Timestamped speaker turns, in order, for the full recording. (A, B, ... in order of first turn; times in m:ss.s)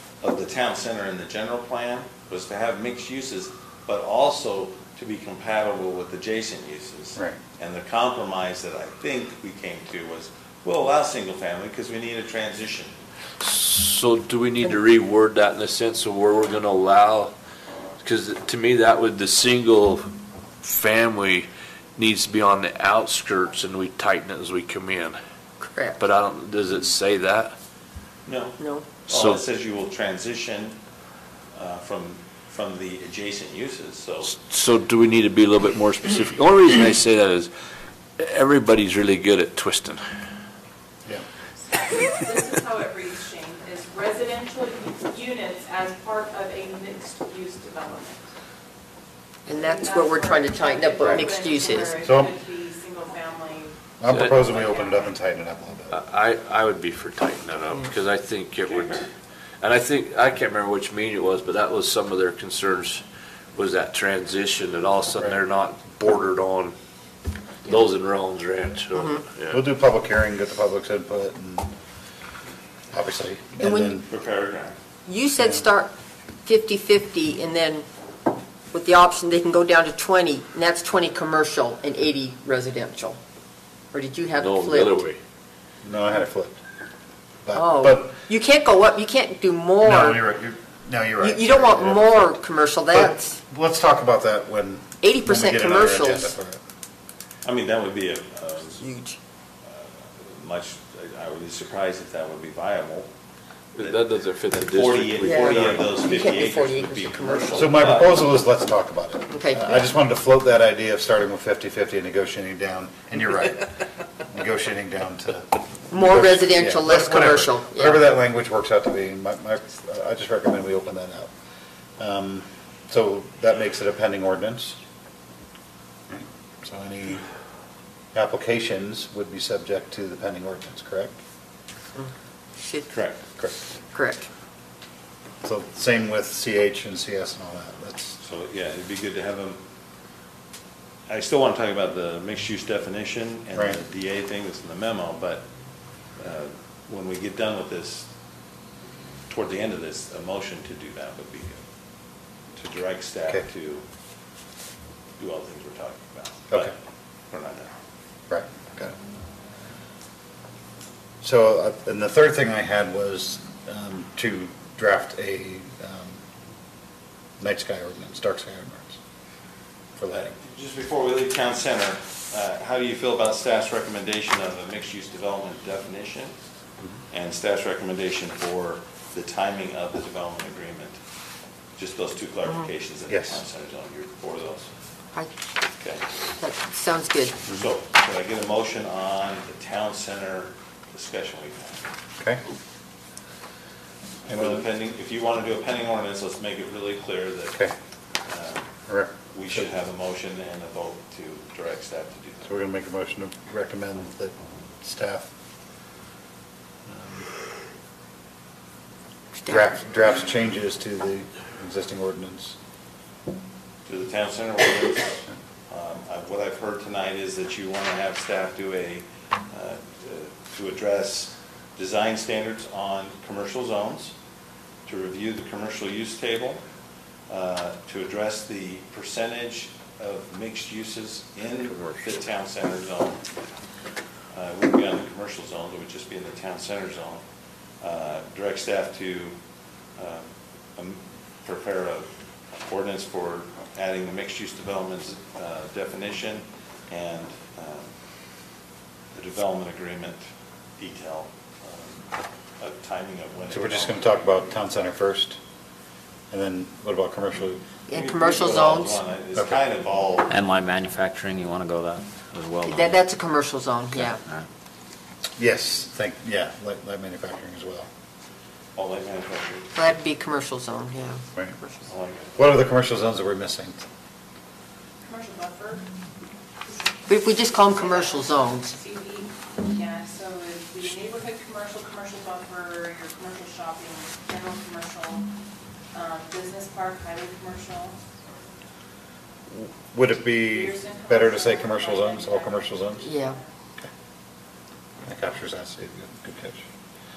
0:00.2-0:12.9 A
0:13.4-0:17.3 B
0:18.0-0:20.1 B
0:20.6-0:25.2 B
0:25.6-0:26.0 C
0:26.0-0:27.5 B
0:28.3-0:30.8 A
0:28.6-0:28.9 C
0:29.1-0:29.4 B
0:31.5-0:34.4 A
0:34.3-0:37.5 B
0:38.2-0:40.0 B
0:42.0-0:48.2 D
0:49.5-0:52.0 C
0:49.5-0:55.1 D
0:52.0-0:52.3 E
0:54.0-0:56.0 E
0:54.1-0:54.6 B
0:55.9-0:59.1 B
0:59.6-1:03.0 B
1:03.6-1:06.7 B
1:07.6-1:09.6 B
1:08.9-1:09.2 C
1:09.5-1:11.7 E
1:12.9-1:14.1 E
1:13.6-1:14.0 C
1:14.1-1:14.8 A
1:15.1-1:15.9 C
1:16.4-1:17.9 C
1:18.7-1:23.2 C
1:23.9-1:25.0 C
1:24.3-1:25.2 B
1:25.8-1:26.6 E
1:27.4-1:28.2 E
1:27.5-1:30.2 C
1:29.8-1:32.4 E
1:31.2-1:33.4 C
1:32.9-1:36.6 E
1:35.0-1:36.3 C
1:37.4-1:38.8 A
1:38.8-1:39.2 C
1:39.7-1:43.1 A
1:43.8-1:45.9 B
1:43.8-1:48.2 A
1:45.2-1:47.7 C
1:47.5-1:53.7 E
1:49.3-1:49.8 C
1:54.3-2:01.3 E
1:55.9-1:58.0 C
2:02.0-2:04.8 E
2:06.1-2:07.2 E
2:08.1-2:11.1 E
2:12.0-2:12.9 C
2:12.9-2:13.2 A
2:13.9-2:14.3 C
2:15.4-2:18.2 E
2:18.2-2:19.6 A
2:21.1-2:25.4 A
2:23.5-2:23.8 E
2:26.2-2:28.1 A
2:29.3-2:31.6 A
2:32.6-2:33.8 A
2:35.2-2:36.8 A
2:37.3-2:37.7 A
2:38.3-2:39.0 E
2:41.2-2:46.2 E
2:47.4-2:49.0 E
2:50.0-2:50.3 E
2:50.1-2:56.3 A
2:57.1-3:01.0 A
3:01.8-3:04.7 A
3:03.1-3:03.4 E
3:05.7-3:06.1 A
3:06.4-3:07.4 C
3:07.5-3:11.8 A
3:12.2-3:12.4 E
3:14.2-3:17.6 A
3:14.3-3:14.6 E
3:18.3-3:18.7 A
3:18.9-3:19.7 E
3:19.3-3:22.5 A
3:22.4-3:25.3 E
3:26.9-3:27.3 E
3:29.5-3:32.6 E
3:33.9-3:44.2 A
3:44.9-3:46.6 A
3:47.3-3:53.2 A
3:54.3-3:57.2 A
3:57.8-3:59.4 A
4:00.0-4:07.9 A
4:09.1-4:10.2 A
4:10.8-4:14.2 A
4:13.5-4:15.4 E
4:16.3-4:17.6 E
4:17.9-4:19.0 C
4:17.9-4:20.3 A
4:20.3-4:23.0 F
4:22.6-4:24.2 C
4:25.4-4:27.9 E
4:28.8-4:29.7 A
4:29.8-4:31.8 C
4:31.8-4:32.4 A
4:32.4-4:33.8 E
4:35.0-4:35.9 D
4:37.1-4:38.7 C
4:37.4-4:45.3 D
4:45.9-4:48.0 D
4:49.5-4:53.1 E
4:50.5-4:53.5 D
4:53.0-4:53.4 C
4:55.0-4:56.6 E